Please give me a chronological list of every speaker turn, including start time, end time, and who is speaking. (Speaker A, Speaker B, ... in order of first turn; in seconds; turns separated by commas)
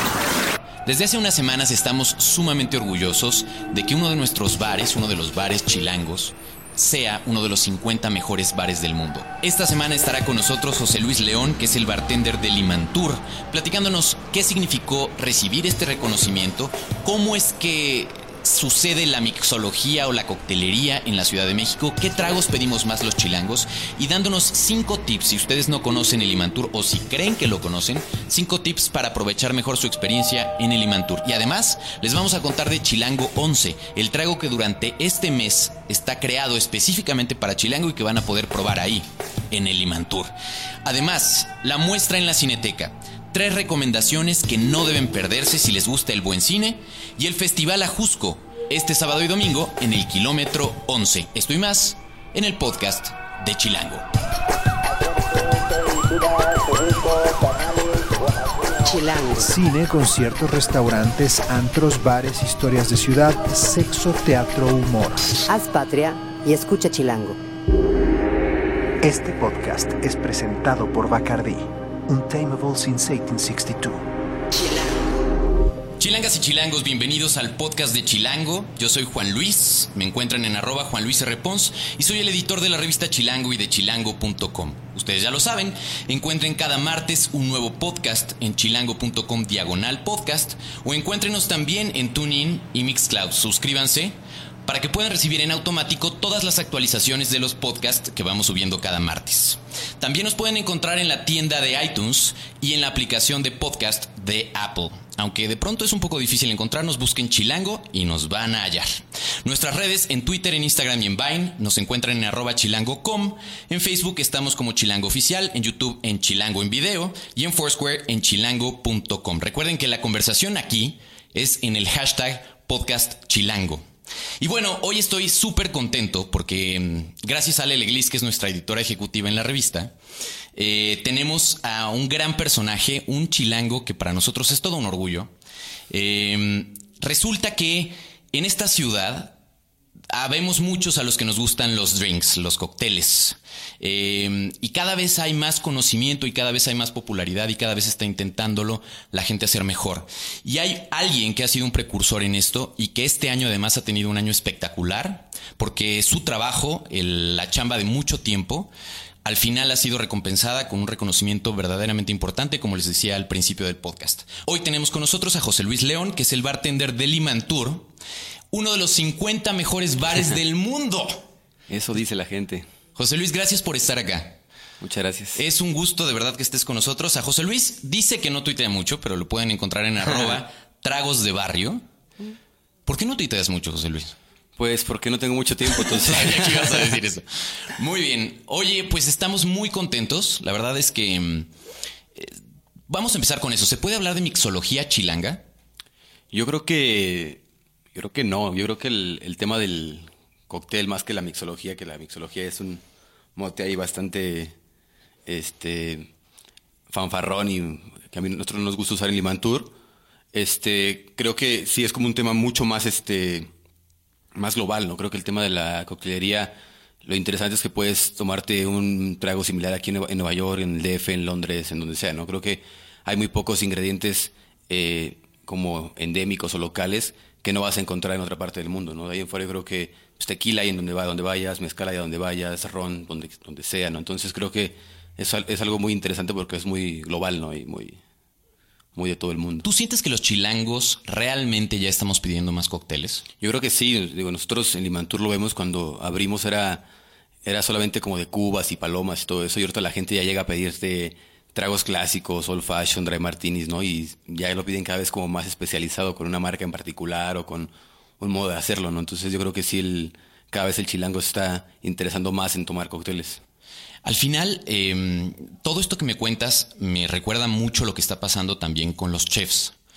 Speaker A: 0.8-40.3, Speaker A: 40.9-54.1, Speaker B: 58.8-59.5, Speaker C: 59.4-65.3, Speaker B: 65.5-67.4, Speaker C: 69.0-74.1, Speaker B: 74.6-75.0, Speaker A: 76.0-123.8, Speaker A: 124.4-130.0, Speaker A: 130.6-135.3, Speaker A: 135.9-139.4, Speaker A: 140.1-158.7, Speaker A: 159.2-167.9, Speaker A: 168.5-171.3, Speaker D: 171.7-172.7, Speaker A: 173.0-174.4, Speaker D: 174.8-175.4, Speaker A: 175.3-181.8, Speaker A: 182.9-184.2, Speaker D: 184.6-187.0, Speaker A: 185.7-191.5, Speaker A: 192.9-195.4, Speaker D: 196.3-197.4, Speaker D: 197.9-202.8, Speaker D: 203.3-204.6, Speaker D: 205.3-206.1, Speaker D: 206.9-209.8, Speaker D: 210.3-213.5, Speaker D: 214.3-238.0, Speaker D: 238.9-239.7, Speaker A: 239.6-243.2, Speaker D: 243.4-246.9, Speaker D: 247.4-263.4, Speaker A: 264.0-269.8